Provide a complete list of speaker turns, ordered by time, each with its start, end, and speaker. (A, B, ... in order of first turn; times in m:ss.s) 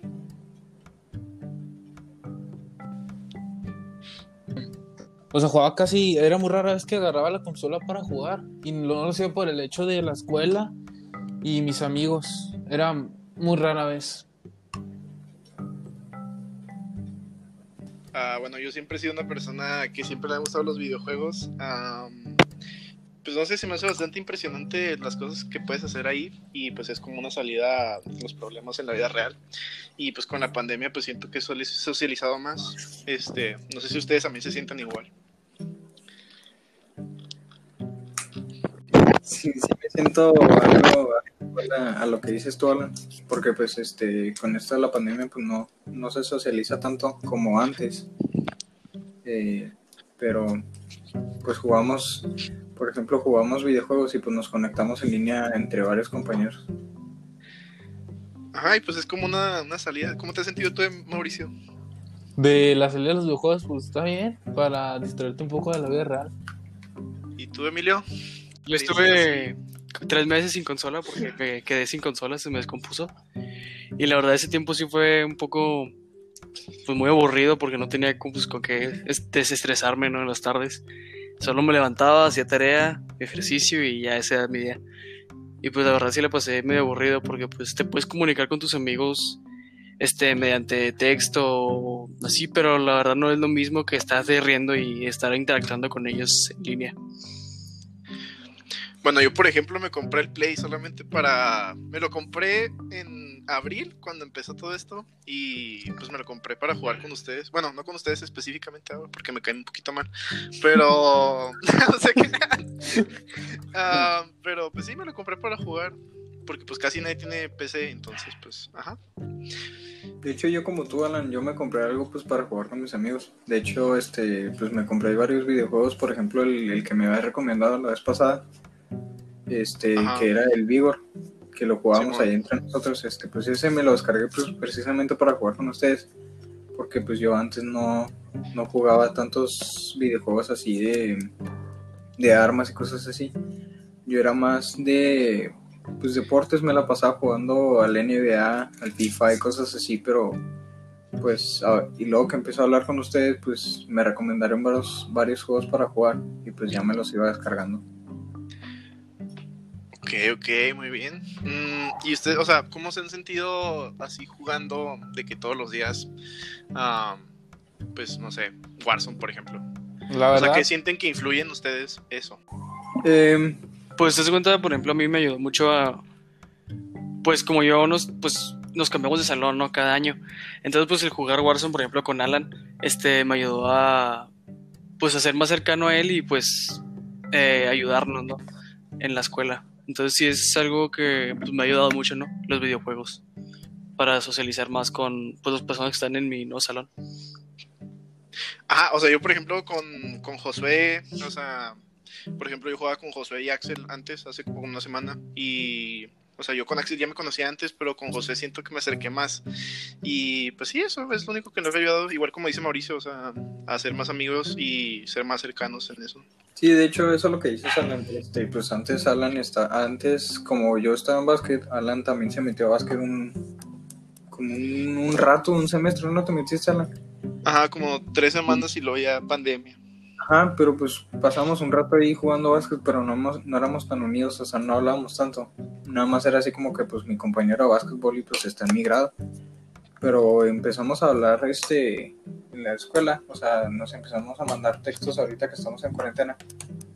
0:05.3-0:10.7 A
0:11.4-0:14.3 A
0:18.1-0:22.4 B
0:23.2-0:29.4 B
0:30.0-0:35.1 B
0:39.2-0:48.1 C
0:49.2-0:50.6 C
0:51.4-0:56.6 C
0:58.5-1:01.5 B
1:02.4-1:06.3 A
1:07.4-1:08.0 B
1:08.7-1:13.1 D
1:08.7-1:09.5 B
1:14.0-1:15.9 D
1:16.8-1:20.8 D
1:21.4-1:24.8 D
1:25.6-1:29.4 D
1:30.0-1:37.0 D
1:39.0-1:53.0 B
1:53.7-1:59.0 B
2:00.2-2:08.4 C
2:09.5-2:11.0 C
2:10.0-2:10.3 B
2:11.5-2:16.1 C
2:11.9-2:12.3 B
2:16.7-2:21.3 C
2:22.2-2:23.4 C
2:24.0-2:30.4 C
2:31.2-2:37.8 C
2:40.0-2:46.1 B
2:46.7-2:47.3 B
2:47.9-2:49.6 B
2:50.1-2:50.7 A
2:50.3-2:52.4 B
2:53.0-2:53.6 C
2:54.0-2:56.0 D
2:57.2-3:04.3 D
3:05.0-3:08.4 D
3:09.0-3:13.2 D
3:14.0-3:16.9 D
3:18.7-3:21.8 B
3:22.4-3:29.4 B
3:30.0-3:36.2 B
3:36.6-3:43.4 C
3:44.3-3:46.9 C
3:47.4-3:49.8 B
3:50.2-3:59.1 C
4:00.0-4:06.4 C